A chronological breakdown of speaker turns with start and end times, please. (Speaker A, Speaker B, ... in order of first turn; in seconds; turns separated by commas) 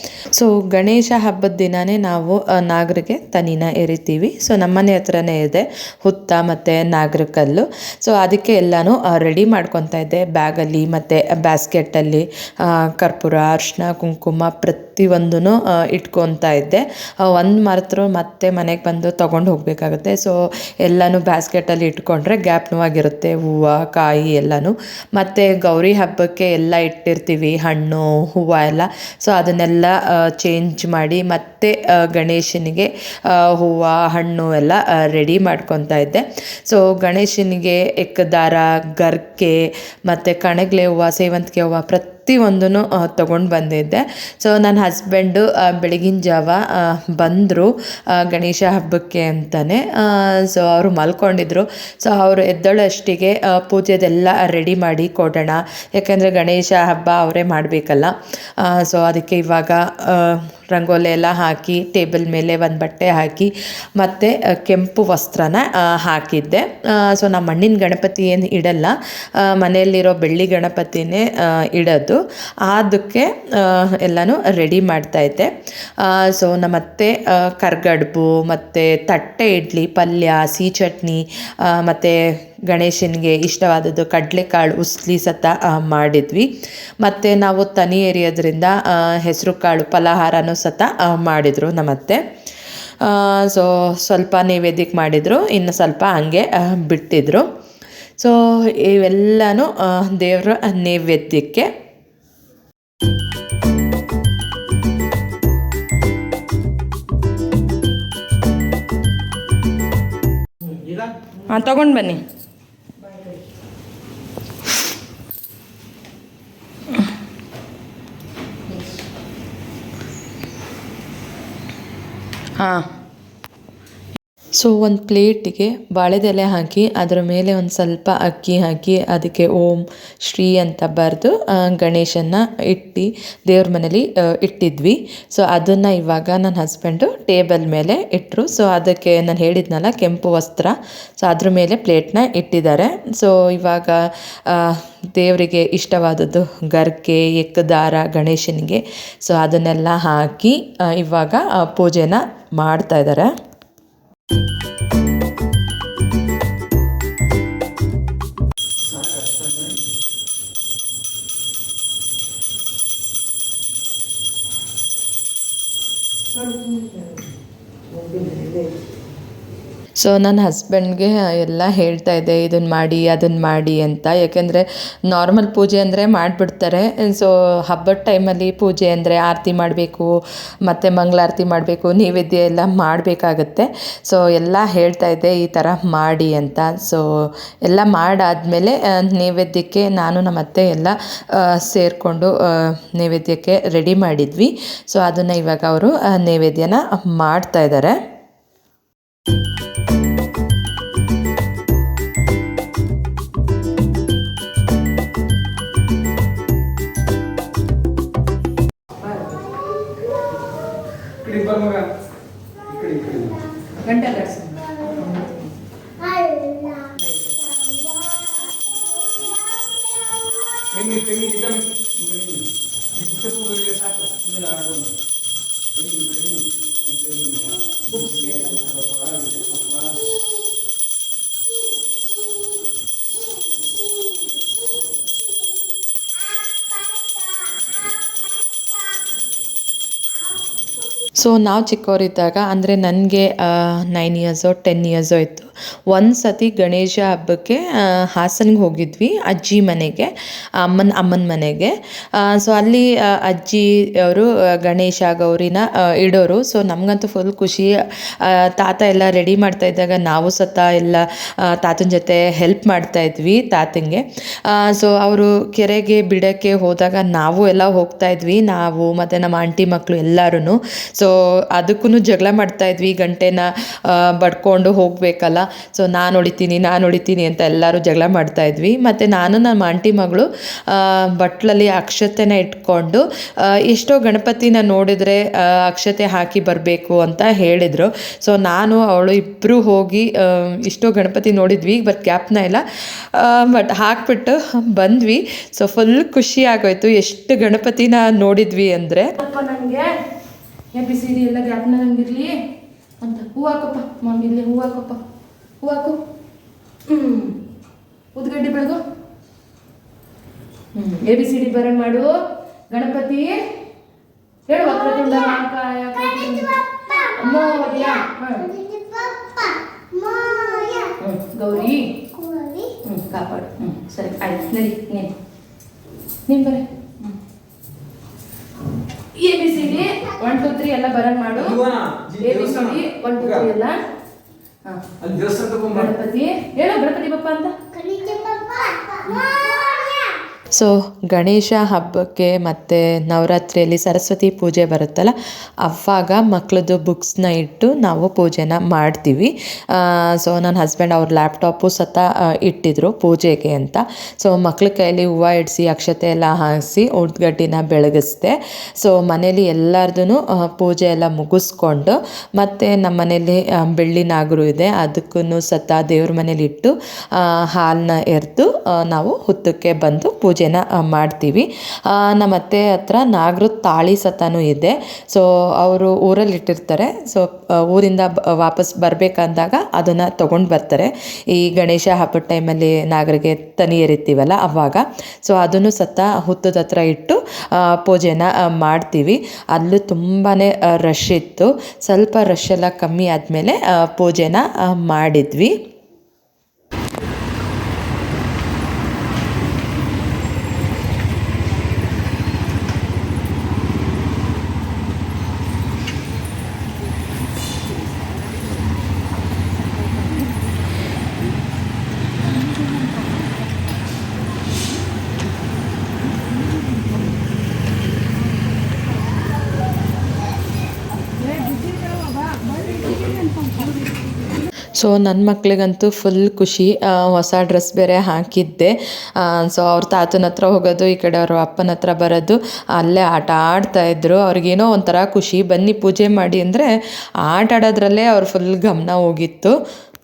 Speaker A: 0.3-86.5, Speaker A: 87.0-92.2, Speaker A: 93.0-97.5, Speaker A: 98.2-101.7, Speaker B: 111.4-112.2, Speaker B: 122.5-122.9, Speaker A: 124.6-153.3, Speaker C: 158.9-159.7, Speaker B: 168.1-168.6, Speaker A: 170.0-180.1, Speaker A: 180.7-198.0, Speaker C: 211.2-211.8, Speaker C: 212.6-213.4, Speaker B: 213.8-215.1, Speaker C: 220.6-222.4, Speaker C: 223.0-224.9, Speaker C: 225.8-230.1, Speaker A: 241.2-299.1, Speaker B: 299.2-299.9, Speaker B: 300.7-302.4, Speaker B: 303.0-305.0, Speaker B: 305.6-306.0, Speaker B: 306.9-307.4, Speaker B: 308.1-308.8, Speaker B: 310.7-312.1, Speaker B: 312.7-313.4, Speaker B: 314.5-318.6, Speaker C: 318.7-319.1, Speaker C: 320.0-320.9, Speaker B: 320.9-322.0, Speaker B: 322.8-325.1, Speaker B: 326.3-327.1, Speaker B: 329.1-331.6, Speaker C: 331.6-332.5, Speaker B: 332.2-333.8, Speaker C: 335.0-335.8, Speaker B: 335.7-337.8, Speaker C: 338.0-338.7, Speaker B: 339.0-339.5, Speaker A: 340.5-395.5, Speaker A: 424.7-436.7, Speaker A: 437.2-439.5